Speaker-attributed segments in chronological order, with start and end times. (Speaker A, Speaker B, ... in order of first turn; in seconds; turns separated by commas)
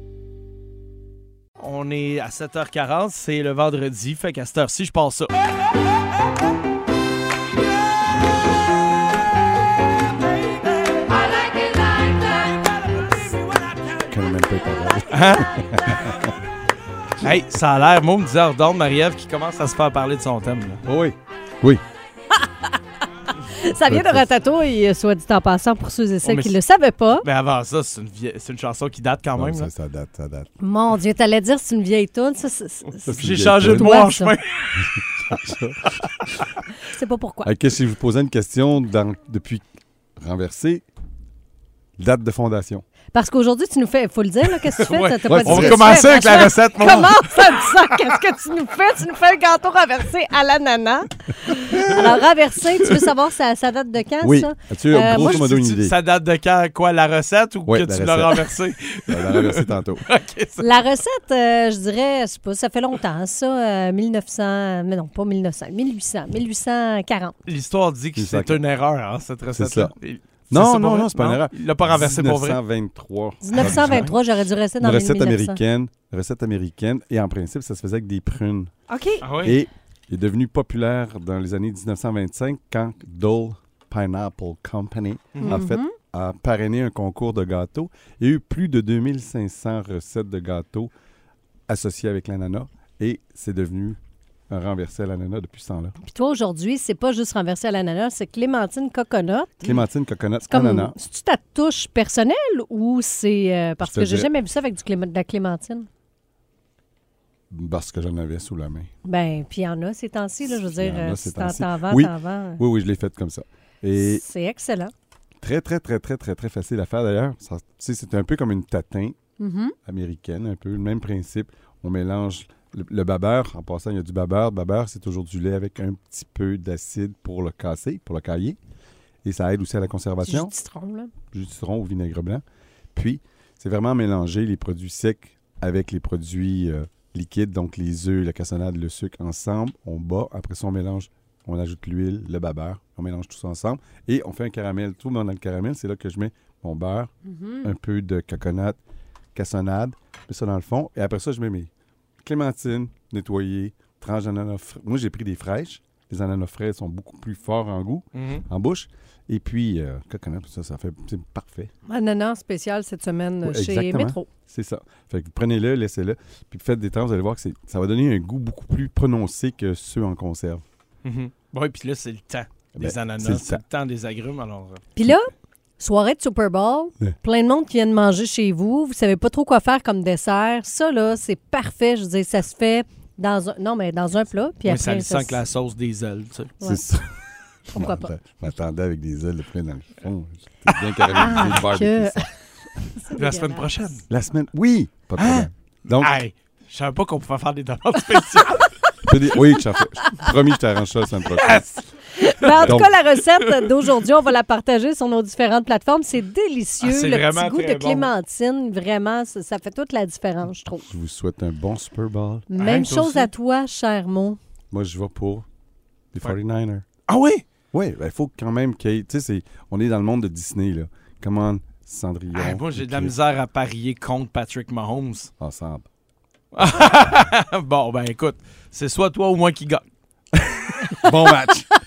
Speaker A: 1.6-5.3, Speaker B: 14.0-16.3, Speaker A: 15.1-15.6, Speaker A: 17.2-20.8, Speaker B: 20.8-21.8, Speaker C: 22.3-22.7, Speaker C: 23.2-27.2, Speaker B: 23.8-24.3, Speaker A: 26.2-26.6, Speaker A: 27.2-29.7, Speaker B: 29.3-30.5, Speaker C: 30.6-34.4, Speaker B: 33.1-34.0, Speaker A: 33.1-36.6, Speaker B: 34.8-35.7, Speaker C: 36.8-37.5, Speaker B: 37.4-39.7, Speaker B: 40.2-40.8, Speaker B: 42.0-42.8, Speaker C: 43.1-55.5, Speaker A: 44.6-47.7, Speaker B: 45.3-45.9, Speaker B: 54.2-56.0, Speaker A: 55.0-60.9, Speaker B: 57.6-58.5, Speaker B: 59.1-60.0, Speaker C: 60.6-67.3, Speaker A: 67.5-72.6, Speaker B: 68.1-68.6, Speaker B: 69.5-69.9, Speaker B: 70.5-74.2, Speaker C: 73.4-75.6, Speaker A: 73.5-74.1, Speaker B: 74.8-78.7, Speaker C: 78.9-79.2, Speaker A: 79.2-79.6, Speaker B: 79.4-90.9, Speaker A: 85.3-85.6, Speaker C: 85.4-85.9, Speaker B: 91.7-94.0, Speaker B: 94.5-96.0, Speaker C: 96.0-99.8, Speaker B: 99.6-101.0, Speaker C: 100.5-105.9, Speaker B: 103.8-104.3, Speaker B: 107.5-108.9, Speaker C: 109.0-112.6, Speaker B: 110.5-114.2, Speaker C: 113.9-114.9, Speaker B: 115.4-119.1, Speaker C: 119.4-119.7, Speaker B: 119.8-128.6, Speaker B: 129.2-130.5, Speaker C: 130.2-131.1, Speaker B: 131.3-132.4, Speaker B: 132.9-147.1, Speaker C: 147.2-147.7, Speaker B: 147.6-148.8, Speaker B: 149.3-151.7, Speaker B: 152.2-161.7, Speaker A: 158.1-158.4, Speaker C: 161.8-164.2, Speaker B: 163.4-170.6, Speaker A: 171.0-174.8, Speaker B: 172.8-173.6, Speaker C: 174.9-185.4, Speaker A: 184.6-186.6, Speaker B: 186.6-187.2, Speaker B: 187.7-192.2, Speaker C: 187.7-188.1, Speaker C: 191.1-193.7, Speaker A: 191.2-191.5, Speaker A: 193.1-194.1, Speaker B: 194.1-196.1, Speaker A: 195.2-198.8, Speaker B: 199.0-201.7, Speaker A: 201.2-203.7, Speaker C: 202.1-210.9, Speaker B: 202.6-202.9, Speaker A: 206.8-208.1, Speaker B: 210.9-212.5, Speaker C: 212.5-214.4, Speaker A: 212.5-213.3, Speaker B: 214.7-215.4, Speaker B: 216.1-216.8, Speaker A: 217.1-217.4, Speaker B: 217.7-223.1, Speaker A: 222.3-225.3, Speaker B: 225.4-225.9, Speaker A: 226.5-229.8, Speaker B: 230.3-231.7, Speaker A: 230.6-231.3